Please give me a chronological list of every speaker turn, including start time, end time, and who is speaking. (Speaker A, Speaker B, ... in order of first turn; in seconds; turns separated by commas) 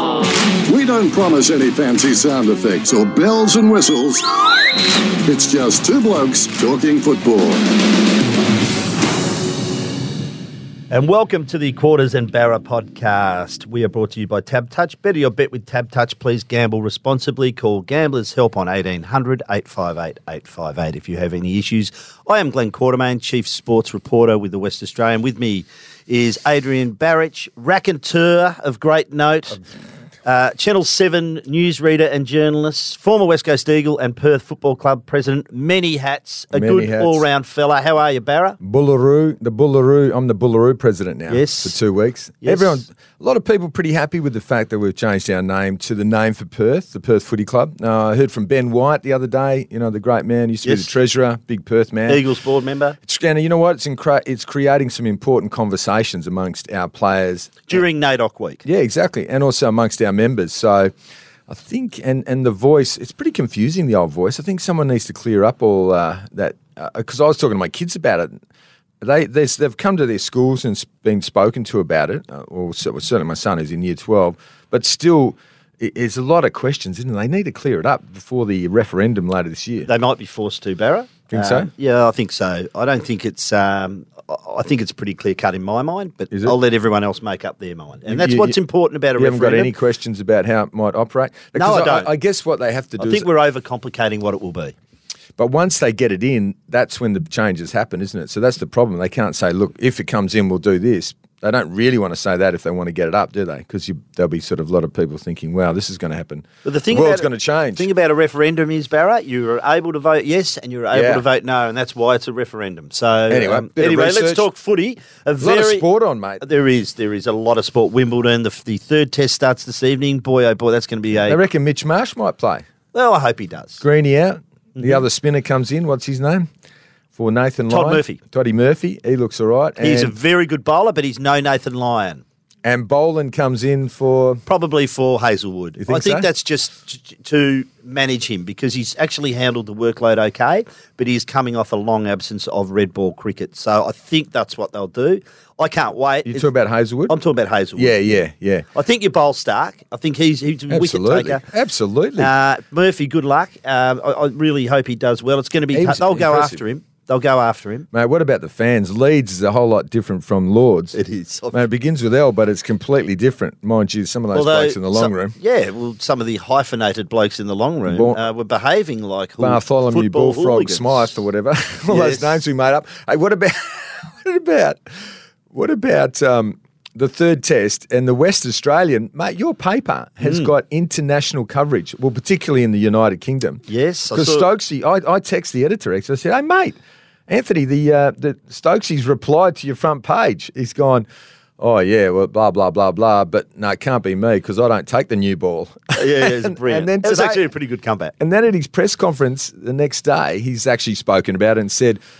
Speaker A: 0.7-4.2, Speaker A: 5.3-7.6, Speaker B: 10.9-29.6, Speaker B: 30.2-38.6, Speaker C: 36.5-37.2, Speaker C: 38.6-52.2, Speaker B: 41.3-41.8, Speaker B: 42.4-42.9, Speaker B: 50.6-50.9, Speaker B: 52.1-53.0, Speaker C: 53.0-57.8, Speaker B: 57.7-58.6, Speaker C: 58.6-60.9, Speaker C: 61.5-68.4, Speaker C: 69.0-79.9, Speaker B: 79.8-89.7, Speaker C: 81.3-81.7, Speaker C: 88.1-88.6, Speaker C: 89.2-93.3, Speaker B: 91.5-92.1, Speaker B: 93.0-94.8, Speaker C: 95.4-107.9, Speaker B: 106.6-115.8, Speaker C: 110.9-111.2, Speaker C: 113.3-114.5, Speaker C: 115.4-116.4, Speaker B: 116.4-121.4, Speaker C: 121.3-122.7, Speaker B: 122.9-123.8, Speaker C: 123.8-126.5, Speaker B: 124.8-125.0, Speaker C: 127.2-130.1, Speaker B: 127.7-128.2, Speaker B: 129.8-132.2, Speaker C: 132.6-134.4, Speaker B: 134.5-146.5, Speaker C: 135.8-136.3, Speaker C: 146.3-147.2, Speaker B: 147.1-148.2, Speaker C: 147.8-148.7, Speaker B: 148.7-151.4, Speaker C: 150.7-152.3, Speaker B: 152.2-157.9, Speaker C: 155.7-156.6, Speaker C: 157.9-160.9, Speaker B: 160.9-161.7, Speaker C: 161.5-165.3, Speaker B: 164.3-171.1, Speaker C: 167.9-168.2, Speaker C: 169.4-174.8, Speaker B: 171.9-172.4, Speaker C: 175.5-191.1, Speaker B: 180.2-180.5, Speaker B: 183.7-184.5, Speaker C: 191.6-197.4, Speaker B: 195.9-198.1, Speaker C: 198.2-202.0